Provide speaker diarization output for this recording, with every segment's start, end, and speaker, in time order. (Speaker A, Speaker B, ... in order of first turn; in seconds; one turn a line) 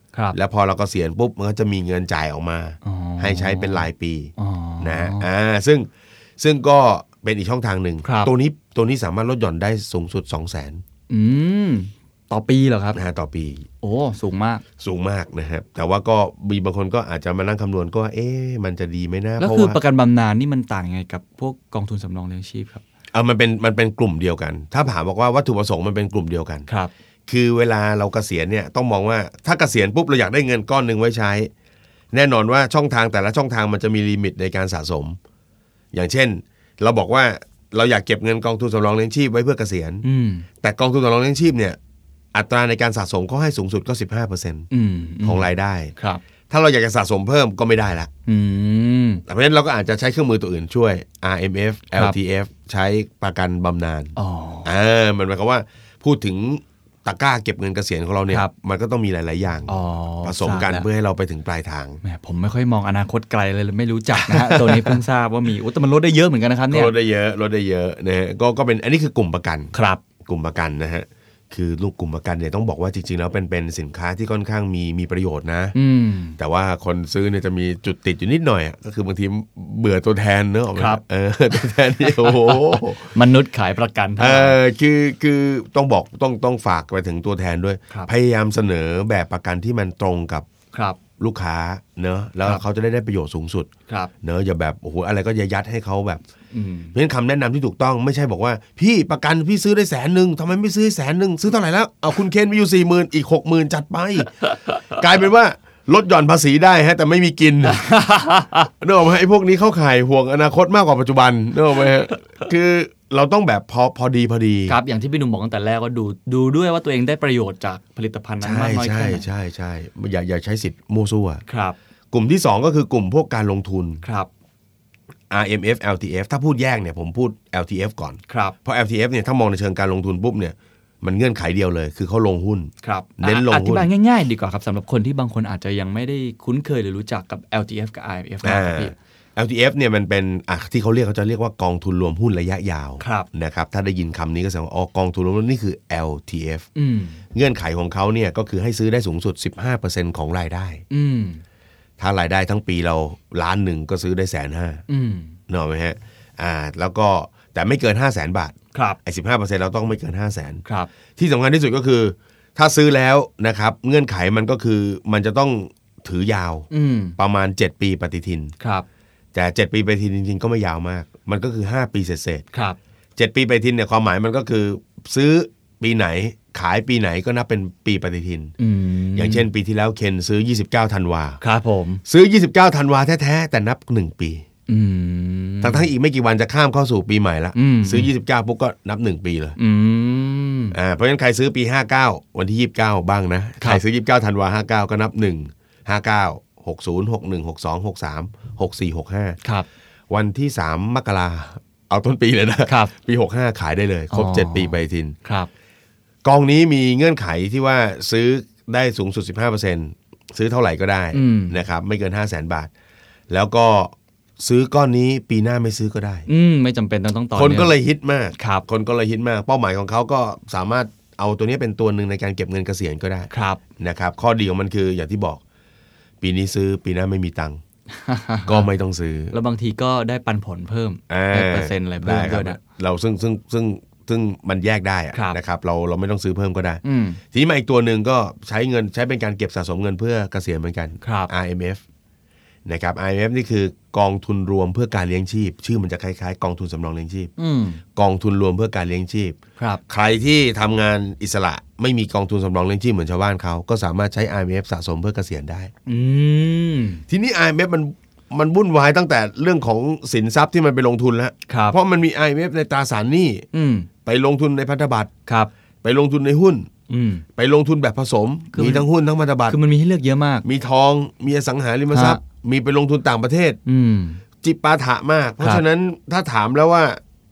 Speaker A: 0.3-5.9
Speaker B: 2.8-5.3
Speaker A: 6.4-10.8
Speaker B: 8.0-8.3
Speaker B: 11.1-13.0
Speaker A: 12.9-13.7
Speaker B: 13.8-14.6
Speaker A: 14.8-19.8
Speaker B: 19.4-22.8
Speaker A: 23.1-26.7
Speaker A: 27.3-31.5
Speaker A: 32.1-35.2
Speaker A: 35.9-40.0
Speaker B: 40.0-40.5
Speaker A: 40.6-41.8
Speaker A: 42.3-44.7
Speaker B: 44.7-46.2
Speaker A: 45.2-45.9
Speaker A: 46.5-48.1
Speaker B: 48.3-49.2
Speaker A: 49.2-54.1
Speaker B: 54.1-54.7
Speaker A: 54.6-62.0
Speaker B: 59.7-60.9
Speaker B: 62.0-66.9
Speaker A: 64.2-65.0
Speaker A: 66.7-75.7
Speaker B: 69.7-70.0
Speaker B: 75.7-76.4
Speaker A: 76.4-83.1
Speaker B: 80.8-81.0
Speaker B: 82.1-84.6
Speaker A: 84.2-90.5
Speaker B: 90.7-91.0
Speaker A: 91.2-93.7
Speaker A: 94.2-96.2
Speaker B: 96.5-96.9
Speaker A: 96.9-107.9
Speaker B: 107.6-108.7
Speaker A: 108.8-114.8
Speaker B: 114.7-119.2
Speaker A: 118.4-121.4
Speaker B: 121.5-121.8
Speaker A: 122.1-124.0
Speaker B: 124.0-124.3
Speaker A: 125.3-133.9
Speaker B: 128.3-128.6
Speaker B: 132.8-138.9
Speaker A: 138.4-146.7
Speaker B: 143.0-143.3
Speaker B: 146.8-147.2
Speaker A: 147.3-150.8
Speaker B: 150.9-151.4
Speaker A: 152.0-154.8
Speaker B: 154.9-155.4
Speaker A: 155.5-160.6
Speaker B: 160.6-160.9
Speaker A: 161.2-168.5
Speaker B: 166.7-167.2
Speaker B: 168.6-168.9
Speaker A: 169.3-172.4
Speaker A: 173.2-178.5
Speaker B: 178.6-179.5
Speaker A: 179.1-181.4
Speaker B: 181.4-182.0
Speaker A: 182.1-184.4
Speaker B: 184.7-185.9
Speaker A: 185.6-189.6
Speaker B: 187.5-188.1
Speaker B: 189.6-190.8
Speaker A: 190.7-199.4
Speaker A: 200.1-205.1
Speaker B: 202.7-202.9
Speaker B: 204.1-205.5
Speaker A: 206.2-212.7
Speaker B: 211.1-211.6
Speaker A: 213.3-216.3
Speaker B: 216.3-217.7
Speaker A: 217.4-225.4
Speaker B: 218.4-218.6
Speaker B: 223.3-223.6
Speaker A: 226.2-227.6
Speaker B: 227.9-228.7
Speaker A: 228.4-229.3
Speaker B: 229.3-232.6
Speaker A: 231.1-241.8
Speaker B: 235.1-235.4
Speaker B: 236.8-237.2
Speaker B: 241.0-241.3
Speaker A: 242.7-247.3
Speaker B: 247.4-247.8
Speaker A: 247.9-249.4
Speaker A: 249.9-255.7
Speaker B: 255.9-257.0
Speaker A: 257.1-263.4
Speaker B: 261.5-261.8
Speaker B: 263.5-263.9
Speaker A: 264.0-265.1
Speaker A: 265.8-266.7
Speaker B: 266.9-267.2
Speaker A: 267.4-269.6
Speaker B: 268.5-268.9
Speaker B: 269.5-270.4
Speaker A: 270.4-273.6
Speaker B: 271.9-272.2
Speaker B: 273.6-274.2
Speaker A: 274.4-277.0